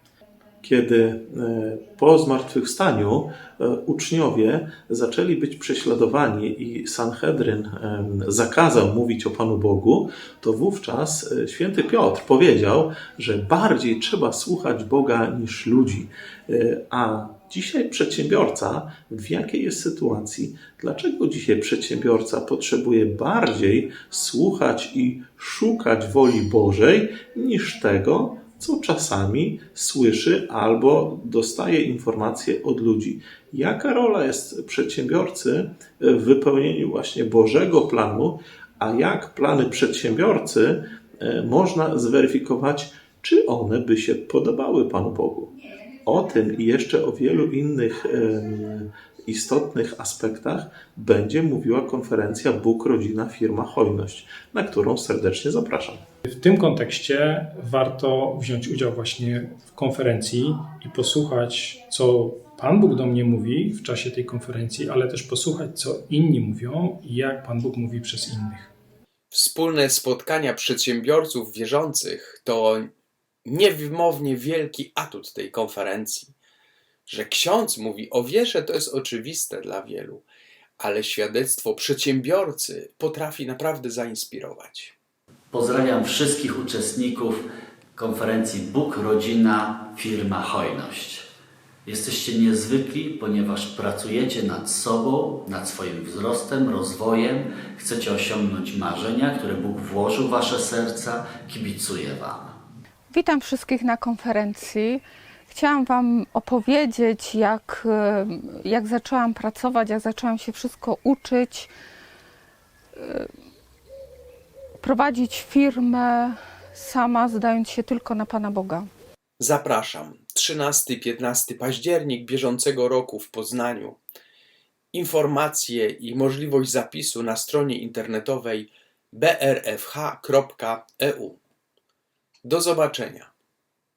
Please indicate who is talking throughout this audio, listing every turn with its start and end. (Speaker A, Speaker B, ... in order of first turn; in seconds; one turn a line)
Speaker A: 0.6-56.0
Speaker B: 56.3-68.7
Speaker C: 69.3-72.9
Speaker C: 73.4-76.3
Speaker C: 77.1-80.2
Speaker C: 80.8-84.9
Speaker D: 85.5-87.4
Speaker D: 87.9-91.2
Speaker D: 91.8-102.6
Speaker E: 103.1-111.7
Speaker E: 114.8-118.9
Speaker C: 119.4-124.0
Speaker C: 124.9-131.4
Speaker C: 132.4-133.3